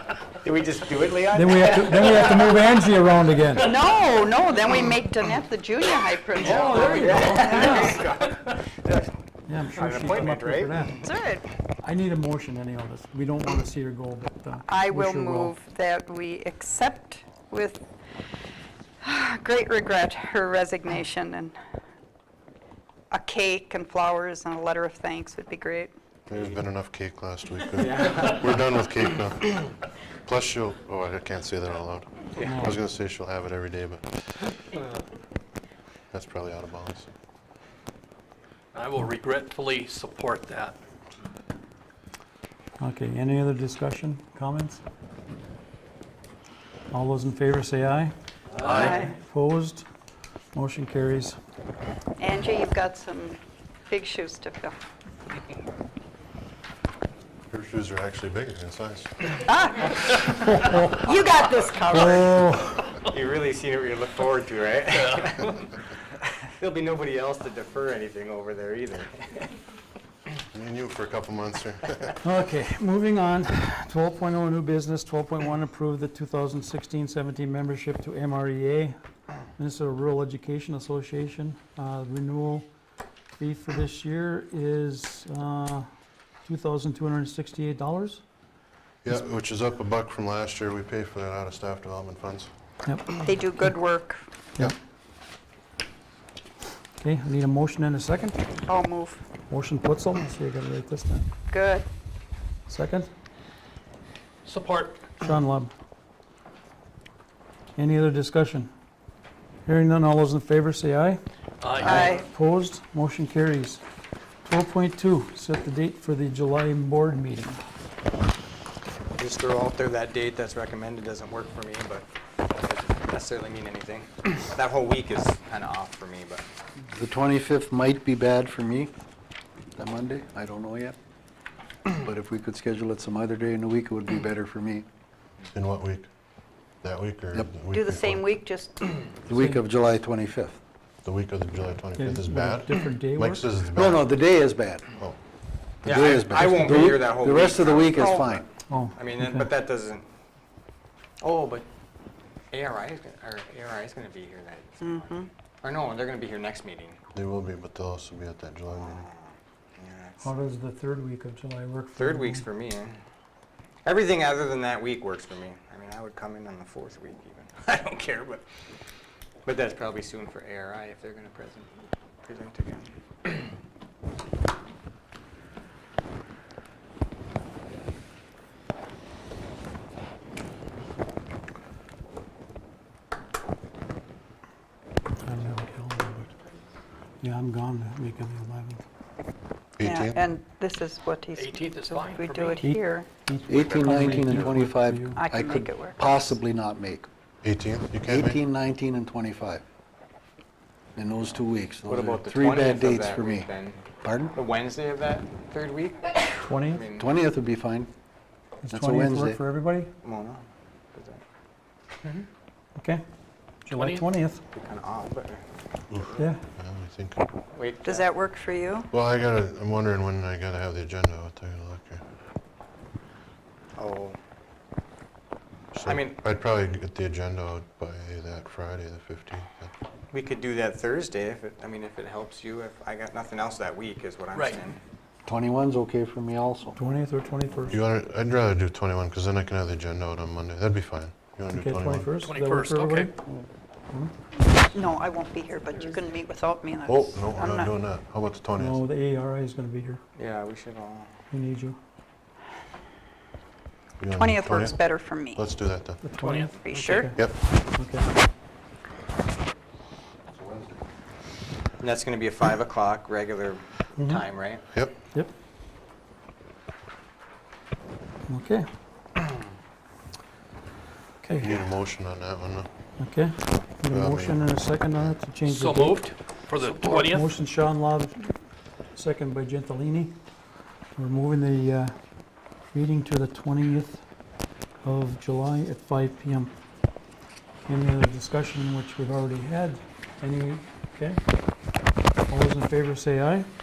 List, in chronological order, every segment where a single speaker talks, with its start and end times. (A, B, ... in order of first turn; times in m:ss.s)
0:00.4-0:02.6 A
0:01.3-0:03.7 B
0:03.6-0:07.5 C
0:06.4-0:08.5 D
0:06.4-0:10.8 A
0:07.5-0:08.0 B
0:09.5-0:11.1 B
0:11.0-0:11.5 C
0:11.8-0:15.5 B
0:14.7-0:17.8 C
0:19.0-0:21.6 C
0:23.1-0:25.9 C
0:26.3-0:34.0 E
0:27.7-0:28.5 A
0:32.4-0:32.6 A
0:32.4-0:32.8 B
0:36.1-0:37.1 E
0:38.7-0:40.8 D
0:42.8-0:44.8 B
0:46.9-0:48.1 B
0:48.6-0:49.0 D
0:48.6-0:49.9 B
0:48.6-0:49.1 C
0:50.5-0:51.4 B
0:52.2-0:54.8 C
0:57.5-0:59.4 E
0:59.4-1:02.3 C
1:00.6-1:01.0 B
1:01.9-1:02.2 A
1:02.0-1:02.9 B
1:03.0-1:05.7 A
1:05.0-1:05.4 D
1:06.6-1:09.5 A
1:10.5-1:12.2 E
1:12.2-1:19.0 B
1:19.6-1:22.7 B
1:23.4-1:25.9 B
1:26.5-1:28.2 B
1:29.0-1:32.5 E
1:32.8-1:33.3 B
1:33.2-1:34.2 C
1:37.0-1:38.4 B
1:38.7-1:39.2 C
1:39.5-1:41.3 B
1:41.5-1:41.9 C
1:42.7-1:43.1 B
1:44.4-1:45.0 D
1:45.2-1:45.7 B
1:47.8-1:48.7 B
1:49.7-1:51.2 B
1:51.6-1:52.0 D
1:51.8-1:52.2 C
1:51.8-1:53.8 B
1:54.4-1:57.6 B
1:59.2-2:06.4 A
2:06.9-2:08.9 F
2:09.8-2:11.0 F
2:11.9-2:14.9 F
2:15.5-2:16.1 E
2:16.8-2:18.4 E
2:17.7-2:19.1 C
2:19.3-2:20.6 F
2:19.3-2:19.6 B
2:21.0-2:24.1 E
2:22.0-2:23.5 B
2:23.7-2:24.9 F
2:25.8-2:28.5 F
2:25.8-2:30.0 A
2:27.8-2:28.3 C
2:28.7-2:29.5 B
2:31.2-2:31.7 A
2:32.5-2:37.0 A
2:34.8-2:35.3 C
2:37.1-2:39.0 E
2:38.7-2:40.3 A
2:40.2-2:42.5 B
2:42.0-2:43.0 A
2:43.8-2:48.4 A
2:49.4-2:53.5 A
3:05.2-3:06.3 B
3:07.2-3:08.8 B
3:09.8-3:10.2 E
3:09.8-3:13.1 C
3:11.4-3:12.6 D
3:12.6-3:15.2 B
3:13.5-3:17.1 F
3:13.5-3:14.0 D
3:15.2-3:16.0 C
3:17.4-3:18.4 E
3:18.1-3:19.6 F
3:21.0-3:23.5 F
3:21.9-3:23.8 A
3:24.0-3:24.3 F
3:24.3-3:27.1 A
3:26.4-3:26.9 B
3:27.0-3:27.9 F
3:28.6-3:29.9 B
3:28.7-3:29.4 F
3:30.0-3:31.2 A
3:32.8-3:33.0 B
3:33.7-3:34.4 B
3:33.7-3:34.0 D
3:34.5-3:35.4 A
3:35.9-3:37.2 E
3:36.2-3:36.4 B
3:37.5-3:38.1 A
3:37.8-3:38.9 C
3:38.9-3:42.0 E
3:43.8-3:44.2 A
3:45.7-3:49.7 E
3:45.8-3:46.2 A
3:50.1-3:54.8 A
3:54.3-3:54.6 D
3:55.2-3:56.9 F
3:56.8-3:57.8 B
3:57.7-4:02.2 E
4:01.5-4:03.4 B
4:02.2-4:03.2 D
4:04.7-4:07.7 C
4:06.9-4:08.8 E
4:08.6-4:10.0 B
4:10.2-4:11.1 A
4:11.3-4:11.8 B
4:14.0-4:16.0 E
4:14.2-4:15.5 C
4:16.0-4:18.1 B
4:16.2-4:16.9 D
4:16.6-4:17.1 C
4:20.4-4:20.7 F
4:21.8-4:24.6 A
4:24.0-4:24.2 B
4:28.3-4:28.7 B
4:31.2-4:31.6 B
4:31.3-4:32.7 E
4:33.0-4:38.4 B
4:33.9-4:34.5 E
4:35.4-4:37.3 D
4:38.9-4:40.2 B
4:41.0-4:42.0 B
4:42.7-4:44.0 B
4:44.8-4:46.5 B
4:47.6-4:51.2 B
4:52.3-4:53.5 B